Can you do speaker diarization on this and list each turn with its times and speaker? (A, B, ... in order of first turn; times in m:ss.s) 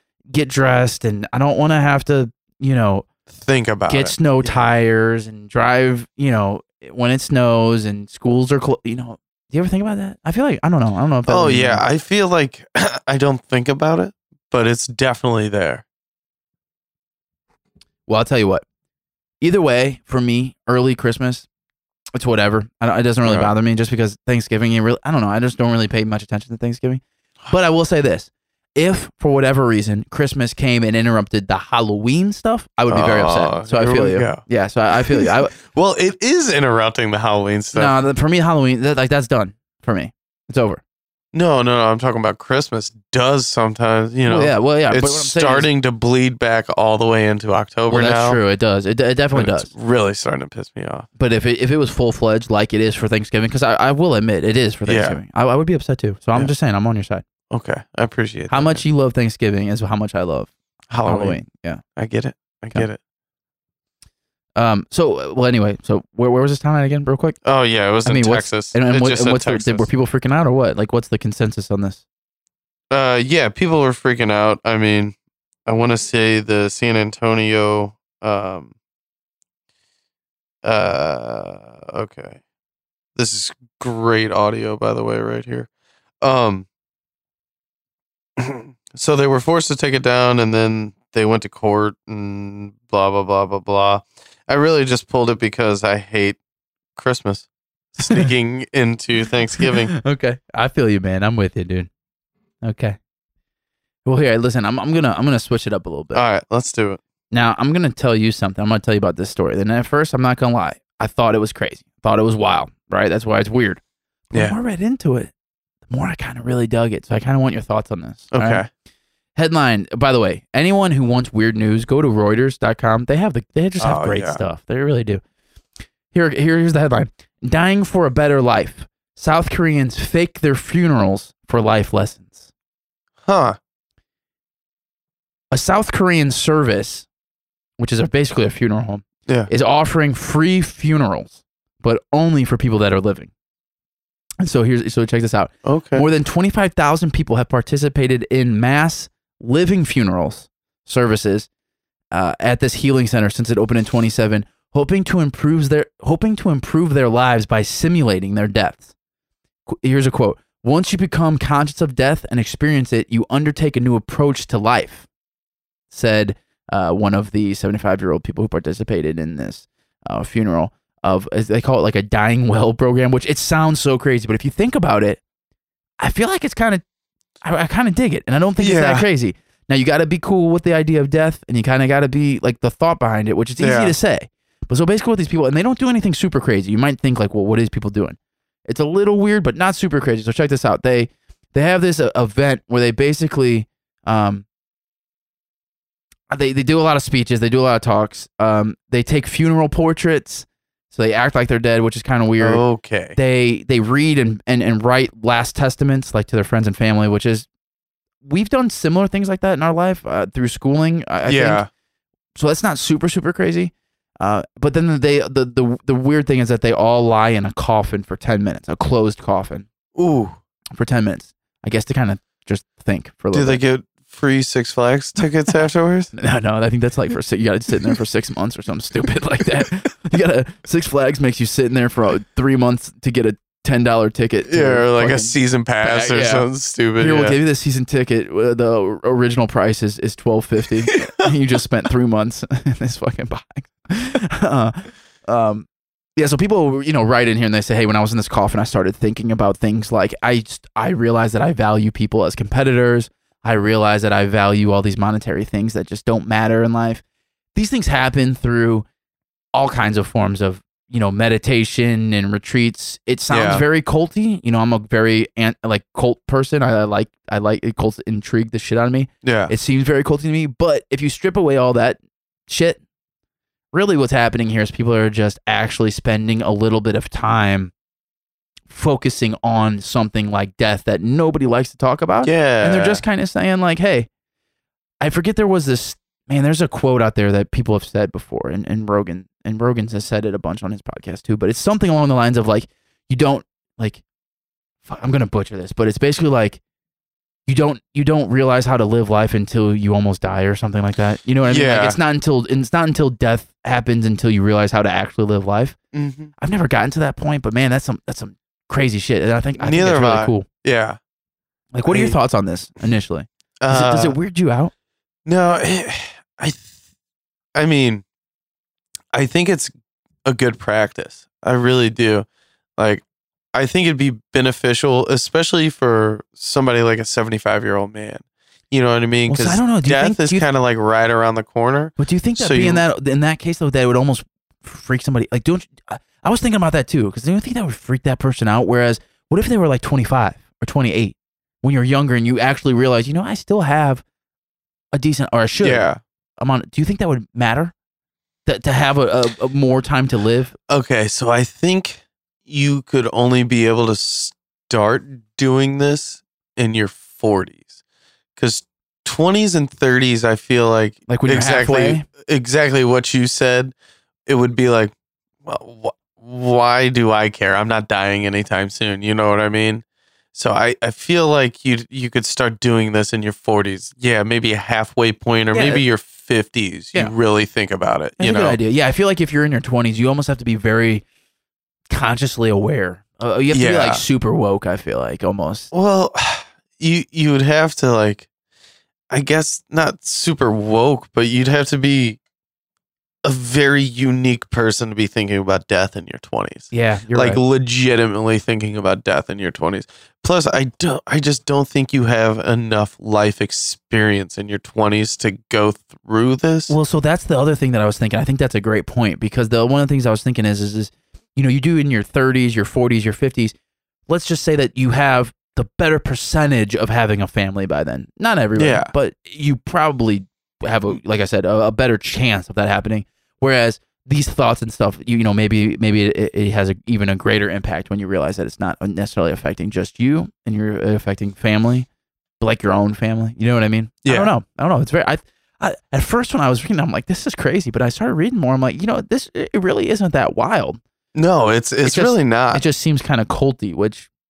0:00.3-0:03.1 A
0:03.3-0:04.6 B
0:03.9-0:11.8 A
0:11.3-0:15.8 B
0:18.1-0:18.6 A
0:19.4-0:21.5 A
0:22.1-0:35.5 A
0:23.2-0:23.5 B
0:32.9-0:34.4 B
0:35.0-0:37.9 B
0:37.7-0:40.8 A
0:41.3-0:48.4 B
0:44.2-0:45.7 A
0:47.9-0:49.7 A
0:49.3-0:51.1 B
0:51.2-0:57.2 A
0:54.9-0:55.2 B
0:57.5-0:58.8 B
0:58.5-1:00.5 A
1:00.9-1:01.4 B
1:01.0-1:01.8 A
1:02.0-1:03.0 B
1:04.6-1:07.4 A
1:07.4-1:09.9 B
1:08.0-1:12.0 A
1:12.9-1:15.2 B
1:15.7-1:18.7 B
1:20.6-1:22.4 B
1:23.2-1:25.7 B
1:26.2-1:26.7 B
1:28.4-1:36.4 B
1:37.0-1:39.9 B
1:39.6-1:41.9 A
1:42.6-1:43.0 A
1:44.0-1:46.2 A
1:46.1-1:47.0 B
1:47.3-1:53.8 A
1:54.3-1:55.3 A
1:55.9-1:58.6 A
1:58.3-1:58.7 B
1:59.4-2:05.2 A
2:03.8-2:04.4 B
2:06.1-2:12.5 A
2:13.2-2:13.6 B
2:15.5-2:17.1 A
2:17.8-2:23.3 A
2:24.4-2:31.5 A
2:25.6-2:26.1 B
2:32.1-2:38.9 A
2:39.7-2:45.1 A
2:45.9-2:55.2 A
2:56.0-2:56.8 A
2:57.4-3:14.4 A
2:58.6-2:59.1 B
3:03.6-3:04.0 B
3:16.3-3:22.6 A
3:22.4-3:23.2 B
3:23.2-3:27.5 A
3:28.2-3:31.6 A
3:31.3-3:31.7 B
3:32.4-3:39.7 A
3:40.0-3:40.4 B
3:40.7-3:43.6 A
3:43.3-3:46.1 B
3:46.1-4:17.0 A
3:54.5-3:57.4 B
4:17.6-4:18.9 A
4:19.5-4:32.8 A
4:23.3-4:23.6 B
4:29.2-4:29.5 B
4:33.7-4:37.7 A
4:38.7-4:44.1 A
4:42.2-4:43.0 B
4:45.0-4:54.0 A
4:54.8-4:56.6 A
4:57.5-5:05.8 A
5:01.4-5:02.0 B
5:05.9-5:06.3 B
5:06.4-5:10.5 A
5:09.6-5:11.0 B
5:11.7-5:14.7 A
5:11.8-5:12.2 B
5:13.6-5:14.2 B
5:15.3-5:16.7 B
5:17.6-5:18.0 B
5:19.1-5:19.7 B
5:20.2-5:22.3 B
5:22.8-5:23.0 B
5:23.5-5:32.8 B
5:29.3-5:30.4 A
5:32.0-5:44.0 A
5:44.9-5:45.9 A
5:45.6-5:46.0 B
5:46.4-5:47.7 A
5:48.5-5:50.6 A
5:50.7-5:57.7 B
5:58.4-6:03.7 B
6:01.1-6:02.0 A
6:04.3-6:18.6 B
6:15.5-6:15.8 A
6:18.2-6:21.0 A
6:21.9-6:25.7 A
6:23.5-6:24.0 B
6:25.7-6:28.3 B
6:29.1-6:32.2 B
6:33.2-6:46.7 B
6:36.7-6:37.4 A
6:46.7-6:53.5 A
6:54.1-7:11.9 A
6:58.6-6:58.9 B
7:12.4-7:20.8 A
7:14.0-7:14.3 B
7:21.1-7:22.6 B
7:21.8-7:24.1 A